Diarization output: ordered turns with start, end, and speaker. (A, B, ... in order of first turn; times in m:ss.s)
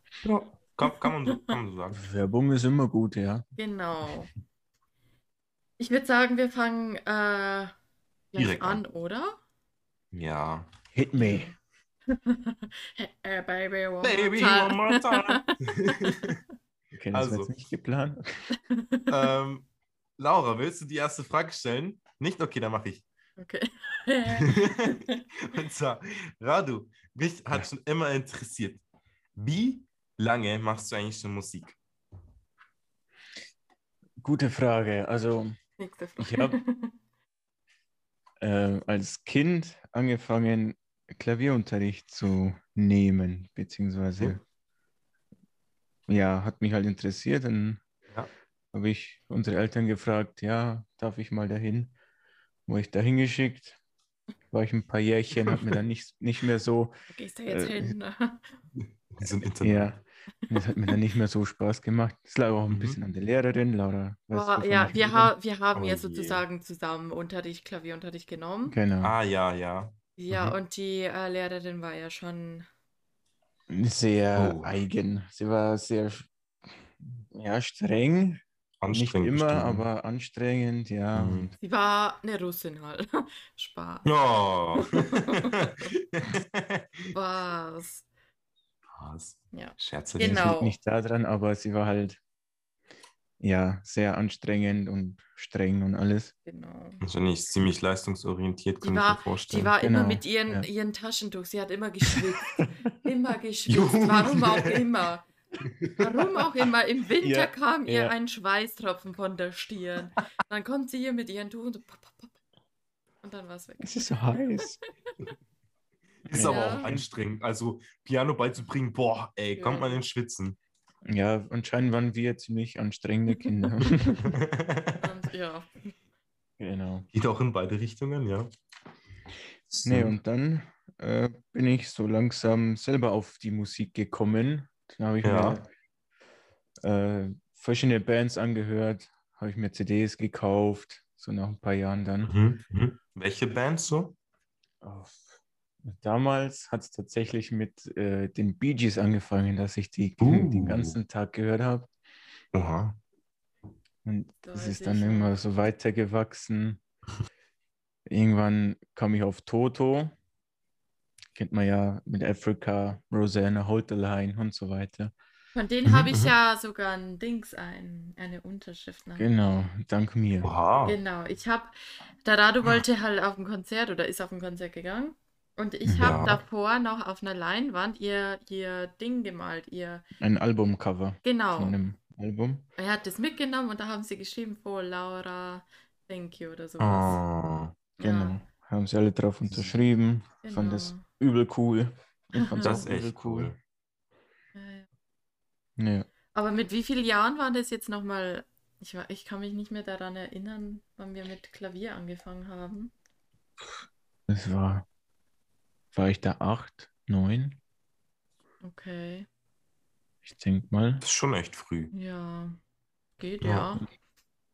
0:00.2-0:02.0 A
0:00.8-0:01.4 B
0:01.9-0:03.4 C
0:03.6-0:04.3 B
0:05.8-0:07.7 B
0:08.3-0:09.4 B
0:08.4-0:08.8 A
0:10.1-0:10.7 A
0:10.9-0:11.5 C
0:11.2-0:11.5 B
0:12.1-0:16.2 B
0:14.0-0:16.4 A
0:16.9-0:18.4 C
0:17.1-0:17.6 A
0:18.6-0:19.1 B
0:19.1-0:23.0 A
0:23.4-0:25.2 B
0:24.3-0:28.8 A
0:29.4-0:31.8 A
0:34.2-0:35.6 C
0:35.8-0:36.9 B
0:36.2-0:36.6 C
0:38.4-0:44.4 C
0:46.1-0:47.8 C
0:48.7-0:51.9 C
0:52.7-0:53.8 C
0:54.5-0:57.0 C
0:55.5-0:55.7 A
0:57.1-0:58.6 B
0:57.5-0:58.0 C
0:58.8-1:00.0 A
0:59.6-1:05.3 C
1:00.5-1:00.9 B
1:02.7-1:03.0 A
1:04.3-1:08.8 B
1:05.7-1:06.4 A
1:08.7-1:09.1 C
1:09.0-1:10.6 A
1:10.2-1:12.7 B
1:13.7-1:16.3 C
1:14.3-1:14.8 A
1:17.0-1:21.5 C
1:18.8-1:19.8 A
1:21.1-1:21.5 A
1:21.6-1:24.1 B
1:24.0-1:27.1 A
1:24.8-1:25.9 B
1:27.1-1:28.0 B
1:28.9-1:30.5 A
1:29.5-1:30.8 B
1:30.2-1:32.2 C
1:33.4-1:36.3 C
1:36.4-1:37.0 B
1:37.0-1:39.7 A
1:38.8-1:45.3 B
1:39.8-1:40.7 C
1:43.7-1:44.9 A
1:45.6-1:46.6 A
1:46.0-1:52.3 B
1:47.2-1:48.1 C
1:53.2-1:54.9 B
1:53.8-1:54.8 C
1:56.2-2:00.6 A
1:56.3-1:57.1 C
1:56.4-1:56.9 B
1:59.6-2:00.0 B
2:01.0-2:04.4 C
2:03.3-2:04.0 B
2:04.1-2:05.0 A
2:05.0-2:05.9 B
2:06.6-2:07.1 C
2:07.1-2:08.5 A
2:09.7-2:10.1 A
2:09.8-2:15.7 C
2:15.2-2:15.6 A
2:16.8-2:22.3 C
2:22.2-2:24.2 A
2:24.8-2:25.3 C
2:25.8-2:31.9 C
2:30.2-2:31.0 A
2:32.5-2:33.0 A
2:34.0-2:36.8 C
2:34.4-2:35.4 B
2:38.1-2:40.1 C
2:41.3-2:45.1 C
2:45.5-2:49.3 B
2:45.8-2:46.3 A
2:49.2-2:50.5 C
2:50.4-2:51.0 A
2:50.8-3:00.0 B
2:55.8-2:56.4 C
2:56.0-2:56.4 A
3:00.2-3:02.6 C
3:01.2-3:01.8 B
3:02.8-3:07.2 B
3:06.8-3:07.7 A
3:08.0-3:08.4 B
3:08.0-3:13.5 C
3:09.5-3:09.7 A
3:10.4-3:11.0 B
3:12.3-3:12.8 B
3:12.6-3:13.6 A
3:14.5-3:14.8 B
3:15.8-3:16.1 C
3:16.3-3:22.9 B
3:24.3-3:24.8 C
3:25.9-3:27.6 C
3:28.6-3:29.3 B
3:30.2-3:31.0 C
3:31.0-3:31.9 A
3:31.9-3:32.6 B
3:33.2-3:33.8 B
3:33.4-3:33.7 A